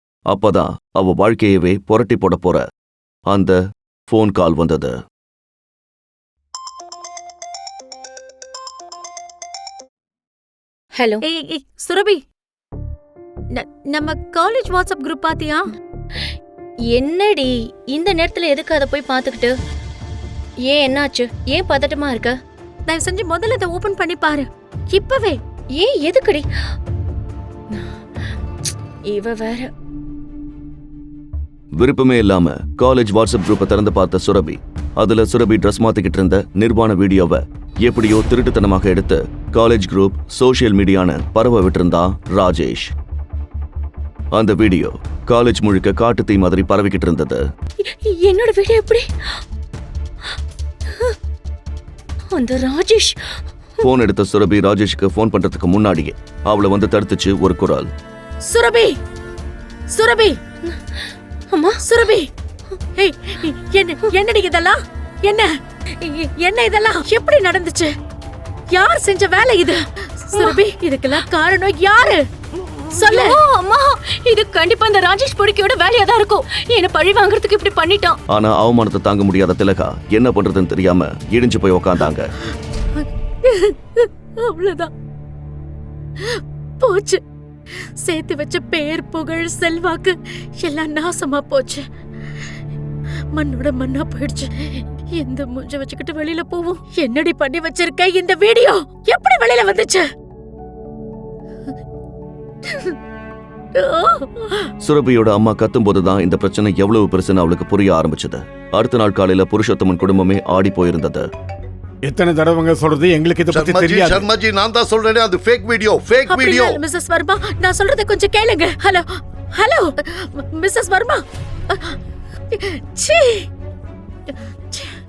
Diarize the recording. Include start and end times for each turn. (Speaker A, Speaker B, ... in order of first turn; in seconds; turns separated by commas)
Speaker A: 0.3-2.6, Speaker A: 3.3-4.9, Speaker B: 11.0-11.2, Speaker C: 11.2-12.2, Speaker C: 13.5-15.7, Speaker B: 16.9-19.5, Speaker B: 20.7-22.3, Speaker C: 22.9-25.4, Speaker B: 25.8-26.4, Speaker B: 27.7-28.0, Speaker B: 29.1-29.7, Speaker A: 31.8-42.9, Speaker A: 44.3-47.4, Speaker B: 47.8-49.4, Speaker B: 50.9-51.1, Speaker B: 52.3-53.4, Speaker A: 53.8-57.9, Speaker C: 58.4-59.0, Speaker C: 59.9-60.4, Speaker B: 60.6-61.8, Speaker C: 61.8-62.3, Speaker C: 63.0-67.9, Speaker C: 68.7-72.2, Speaker B: 72.9-78.2, Speaker C: 73.0-73.4, Speaker A: 78.3-82.3, Speaker C: 82.9-84.9, Speaker C: 86.2-87.2, Speaker C: 88.0-91.8, Speaker C: 93.3-100.0, Speaker C: 102.7-103.0, Speaker C: 103.7-104.7, Speaker A: 104.8-111.3, Speaker D: 112.0-114.3, Speaker E: 113.5-116.8, Speaker C: 116.2-122.0, Speaker C: 122.5-123.5, Speaker C: 124.3-124.9